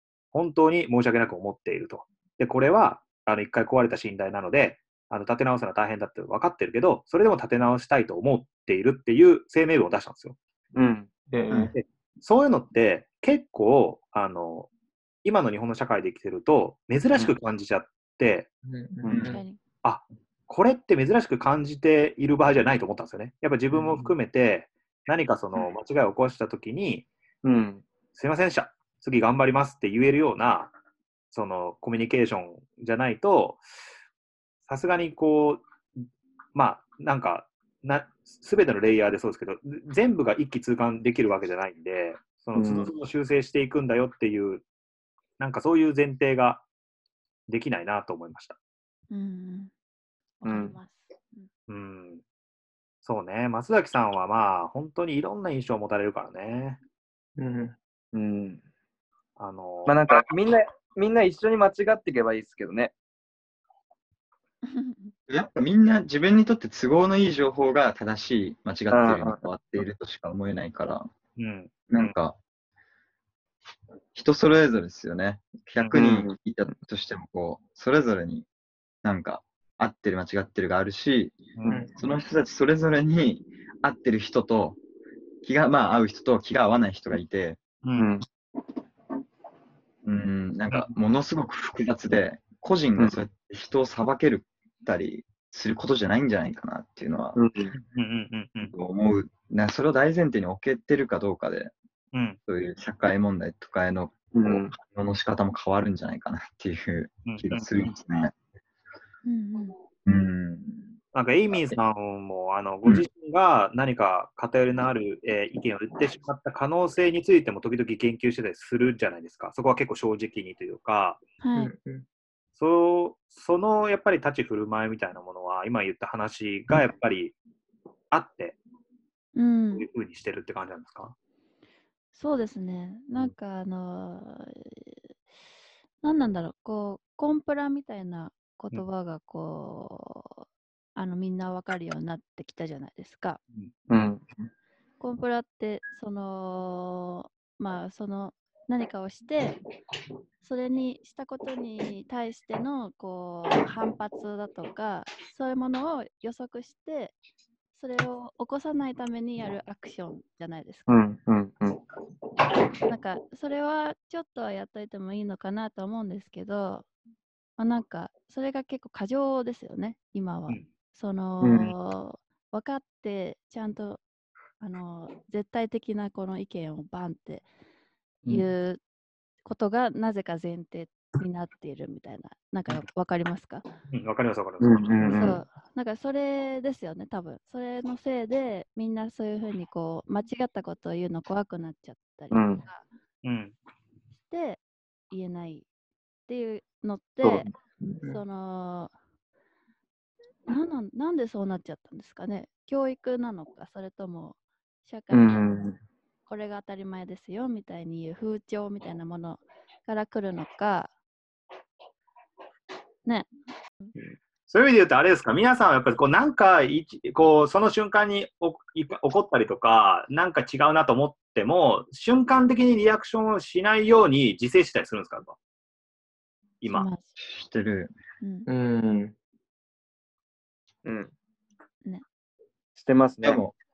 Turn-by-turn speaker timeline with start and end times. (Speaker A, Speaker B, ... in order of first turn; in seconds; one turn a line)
Speaker A: 0.3-10.4
Speaker B: 10.7-11.1
Speaker C: 11.3-11.8
Speaker A: 11.7-14.7
Speaker A: 15.2-18.5
Speaker C: 18.7-19.4
Speaker D: 19.1-19.4
Speaker E: 19.3-19.6
Speaker A: 19.8-27.1
Speaker B: 27.4-27.8
Speaker A: 28.1-30.7
Speaker A: 31.3-33.6
Speaker A: 34.7-35.6
Speaker A: 36.5-44.6
Speaker B: 42.6-42.9
Speaker A: 45.4-46.6
Speaker A: 47.5-48.6
Speaker E: 49.1-49.7
Speaker E: 50.4-51.5
Speaker B: 50.5-50.8
Speaker A: 51.7-52.2
Speaker A: 53.0-56.8
Speaker C: 57.4-57.7
Speaker B: 58.1-58.6
Speaker A: 59.4-60.3
Speaker B: 59.9-62.9
Speaker E: 64.6-65.1
Speaker D: 65.3-71.1
Speaker B: 68.9-69.4
Speaker A: 71.4-72.1
Speaker D: 71.9-72.4
Speaker D: 74.1-78.5
Speaker B: 75.9-76.3
Speaker D: 79.0-81.4
Speaker D: 82.0-84.8
Speaker D: 85.4-87.6
Speaker A: 87.8-88.1
Speaker B: 88.0-88.3
Speaker D: 90.0-97.4
Speaker B: 97.4-97.8
Speaker A: 97.9-98.7
Speaker D: 98.7-101.7
Speaker A: 102.1-102.4
Speaker D: 102.5-108.3
Speaker B: 104.3-104.8
Speaker A: 107.3-107.7
Speaker E: 109.2-109.8
Speaker D: 110.0-110.9
Speaker A: 111.1-121.2
Speaker E: 121.4-121.7
Speaker C: 121.6-122.0
Speaker A: 122.6-127.4
Speaker A: 128.1-128.6
Speaker E: 129.3-129.9
Speaker A: 129.7-131.2
Speaker E: 132.1-135.1
Speaker E: 136.0-140.4
Speaker E: 141.0-143.4
Speaker B: 143.9-144.2
Speaker E: 145.0-149.6
Speaker E: 150.4-157.2
Speaker E: 157.8-161.0
Speaker B: 160.9-161.8
Speaker E: 162.9-166.9
Speaker E: 167.6-174.0
Speaker B: 171.4-171.8
Speaker E: 174.6-177.5
Speaker E: 178.3-178.8
Speaker E: 179.4-183.6
Speaker A: 183.9-185.2
Speaker B: 184.6-185.4
Speaker E: 185.1-192.8
Speaker B: 192.3-192.6
Speaker A: 193.2-193.5
Speaker E: 194.3-195.7
Speaker E: 196.3-197.5
Speaker B: 197.2-197.6
Speaker C: 197.8-198.2
Speaker E: 198.1-198.9
Speaker E: 200.5-205.7
Speaker B: 205.1-205.8
Speaker E: 206.3-210.9
Speaker E: 213.1-213.3
Speaker A: 214.1-225.4
Speaker A: 226.6-226.9
Speaker E: 226.7-227.1
Speaker D: 227.2-227.9
Speaker E: 228.2-228.5
Speaker C: 228.5-229.1
Speaker B: 230.8-231.1
Speaker B: 232.8-233.4
Speaker D: 233.2-233.6